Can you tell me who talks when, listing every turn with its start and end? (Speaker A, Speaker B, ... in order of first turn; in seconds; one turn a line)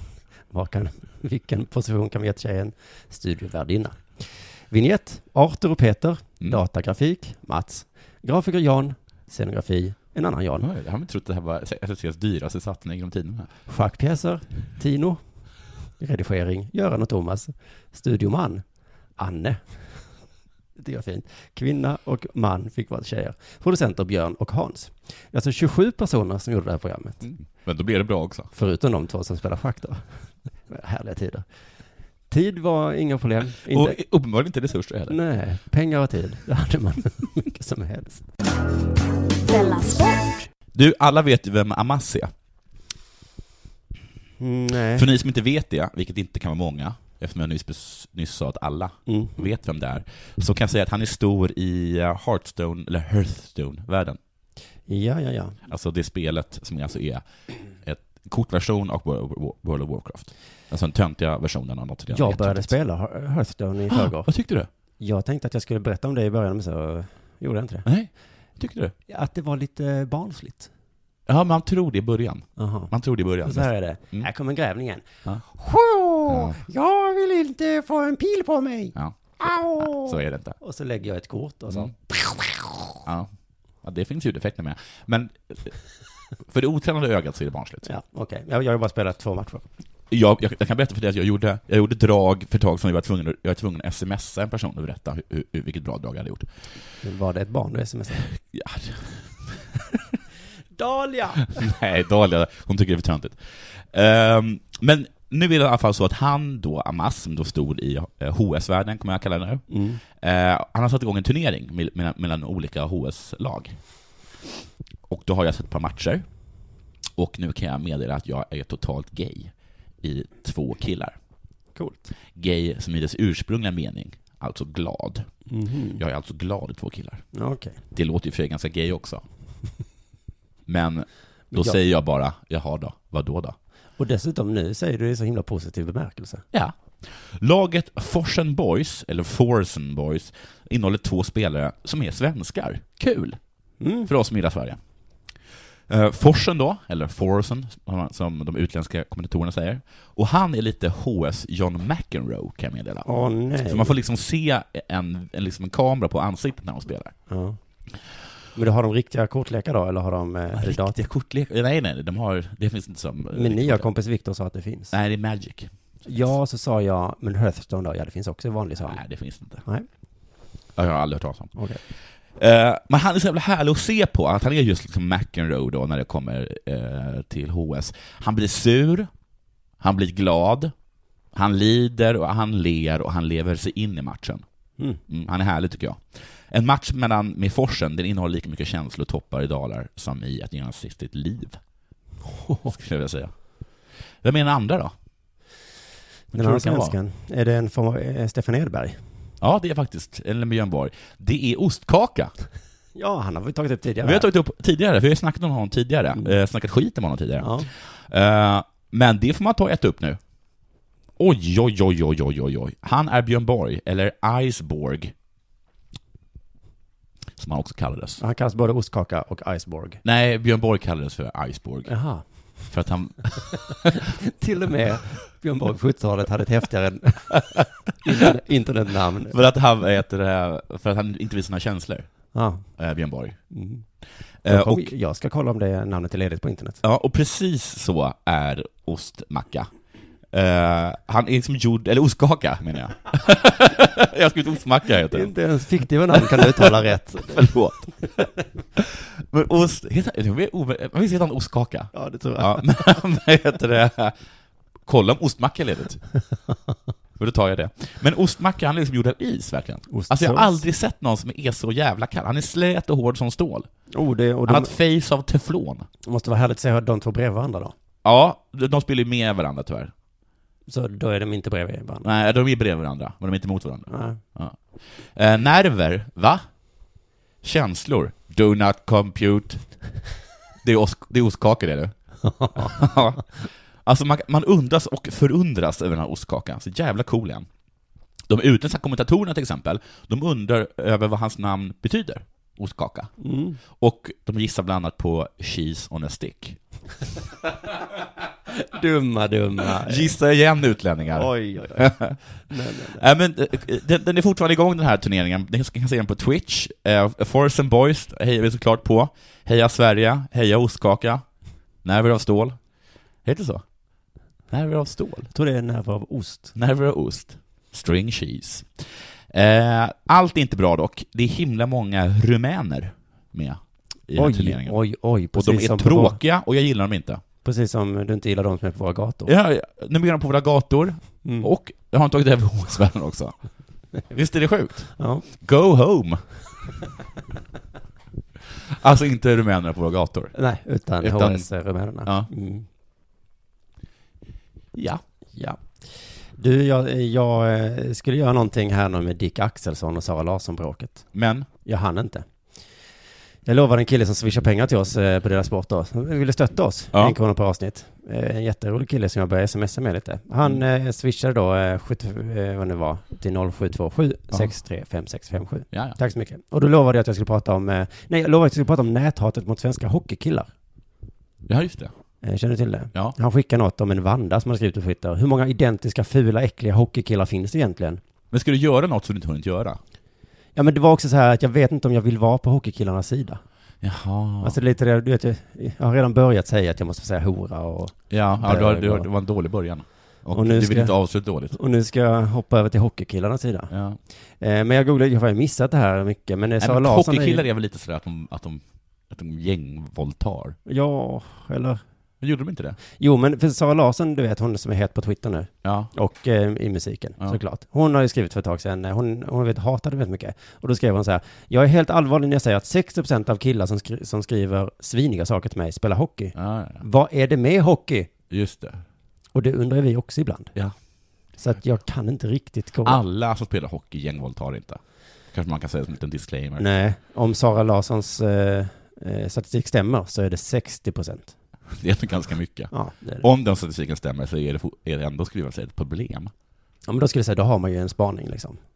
Speaker A: 0.5-10.7
Speaker B: 10.6-13.5
Speaker A: 13.7-15.2
Speaker A: 16.0-18.6
Speaker A: 19.2-20.1
Speaker A: 20.8-27.3
Speaker B: 27.2-28.5
Speaker A: 28.5-31.4
Speaker A: 32.3-34.0
Speaker B: 33.6-35.2
Speaker A: 35.1-38.2
Speaker B: 40.7-42.3
Speaker A: 44.4-45.0
Speaker B: 44.9-54.2
Speaker A: 49.1-49.5
Speaker A: 54.9-55.6
Speaker B: 55.7-57.2
Speaker B: 57.8-62.7
Speaker A: 62.1-64.3
Speaker B: 63.9-64.7
Speaker A: 65.0-67.9
Speaker B: 67.8-68.9
Speaker A: 69.1-70.7
Speaker B: 71.3-74.3
Speaker A: 72.6-72.9
Speaker A: 73.4-82.9
Speaker B: 76.3-76.6
Speaker B: 78.9-80.6
Speaker B: 83.0-83.3
Speaker B: 83.8-85.7
Speaker B: 86.5-87.9
Speaker A: 87.8-89.7
Speaker B: 90.1-96.5
Speaker A: 97.0-98.3
Speaker B: 98.2-100.2
Speaker A: 100.8-101.6
Speaker B: 101.4-113.8
Speaker A: 109.7-110.0
Speaker B: 115.1-116.2
Speaker B: 117.2-121.2
Speaker A: 121.7-122.1
Speaker B: 122.3-125.3
Speaker A: 125.5-126.0
Speaker B: 126.0-127.2
Speaker A: 127.3-127.8
Speaker B: 127.9-129.2
Speaker B: 130.7-133.5
Speaker A: 131.5-131.8
Speaker A: 134.0-136.4
Speaker B: 136.5-143.4
Speaker A: 143.8-144.1
Speaker B: 144.0-144.8
Speaker B: 145.9-157.1
Speaker A: 153.0-154.0
Speaker A: 157.3-157.6
Speaker A: 158.5-161.0
Speaker B: 160.5-163.9
Speaker A: 163.3-164.9
Speaker B: 164.9-166.3
Speaker A: 166.1-169.0
Speaker B: 168.8-169.6
Speaker B: 170.8-171.6
Speaker A: 171.5-171.8
Speaker B: 172.3-179.1
Speaker B: 179.8-180.7
Speaker B: 181.3-184.4
Speaker B: 185.1-191.6
Speaker A: 192.3-192.7
Speaker B: 192.7-193.3
Speaker B: 194.2-194.9
Speaker A: 196.3-199.0
Speaker B: 196.3-196.9
Speaker B: 199.4-202.3
Speaker A: 202.9-204.3
Speaker B: 204.0-210.2
Speaker A: 207.4-207.7
Speaker B: 211.2-215.1
Speaker B: 217.4-218.2
Speaker A: 218.2-220.0
Speaker B: 220.0-221.9
Speaker A: 221.9-222.6
Speaker B: 222.6-224.0
Speaker A: 224.2-227.4
Speaker A: 228.0-229.3
Speaker B: 229.3-232.1
Speaker A: 232.3-232.7
Speaker B: 232.7-233.4
Speaker A: 233.5-233.8
Speaker B: 234.4-234.9
Speaker A: 234.4-236.8
Speaker B: 236.8-239.7
Speaker B: 240.3-245.3
Speaker A: 245.1-247.5
Speaker B: 246.2-246.7
Speaker B: 247.2-254.2
Speaker A: 251.9-253.0
Speaker B: 254.9-256.0
Speaker B: 257.2-263.7
Speaker A: 259.9-260.6
Speaker A: 263.9-264.7
Speaker B: 264.4-265.9
Speaker A: 266.0-267.7
Speaker B: 268.0-269.9
Speaker A: 270.7-272.1
Speaker B: 272.0-276.4
Speaker A: 273.9-274.2
Speaker B: 277.4-279.6
Speaker B: 280.6-281.9
Speaker A: 282.2-282.9
Speaker B: 282.5-283.3
Speaker B: 283.8-287.5
Speaker B: 288.3-293.1
Speaker A: 293.2-293.6
Speaker B: 293.7-296.6
Speaker A: 298.5-300.1
Speaker B: 299.8-311.2
Speaker A: 301.1-303.0
Speaker B: 311.8-312.6
Speaker B: 313.2-313.6
Speaker B: 314.5-315.3
Speaker A: 315.3-316.5
Speaker B: 316.5-324.8
Speaker A: 324.1-326.2
Speaker B: 325.3-327.2
Speaker A: 327.4-329.3
Speaker B: 329.2-333.4
Speaker A: 331.2-331.5
Speaker B: 334.1-336.2
Speaker A: 335.0-335.2
Speaker B: 338.7-340.3
Speaker A: 340.3-342.6
Speaker B: 341.0-341.5
Speaker B: 342.0-342.3
Speaker B: 344.7-345.0
Speaker A: 345.4-351.1
Speaker B: 351.1-351.5
Speaker A: 351.6-352.2
Speaker A: 353.4-370.5
Speaker B: 365.7-366.0
Speaker B: 371.5-371.9
Speaker A: 372.2-378.0
Speaker B: 378.3-379.8
Speaker A: 380.5-383.4
Speaker B: 383.8-384.6
Speaker A: 384.4-389.1
Speaker B: 388.1-391.6
Speaker A: 390.3-391.0
Speaker A: 391.5-393.7
Speaker B: 393.7-394.0
Speaker A: 394.4-397.4
Speaker B: 396.6-400.6
Speaker A: 400.6-401.8
Speaker B: 402.2-402.8
Speaker A: 403.0-418.1
Speaker B: 405.6-405.9
Speaker B: 416.3-416.8
Speaker B: 418.3-418.8
Speaker A: 419.3-420.5
Speaker A: 421.4-423.0
Speaker B: 422.8-424.8
Speaker B: 425.3-426.6
Speaker A: 426.6-431.3
Speaker B: 431.7-436.3
Speaker A: 432.7-433.2
Speaker A: 436.9-438.6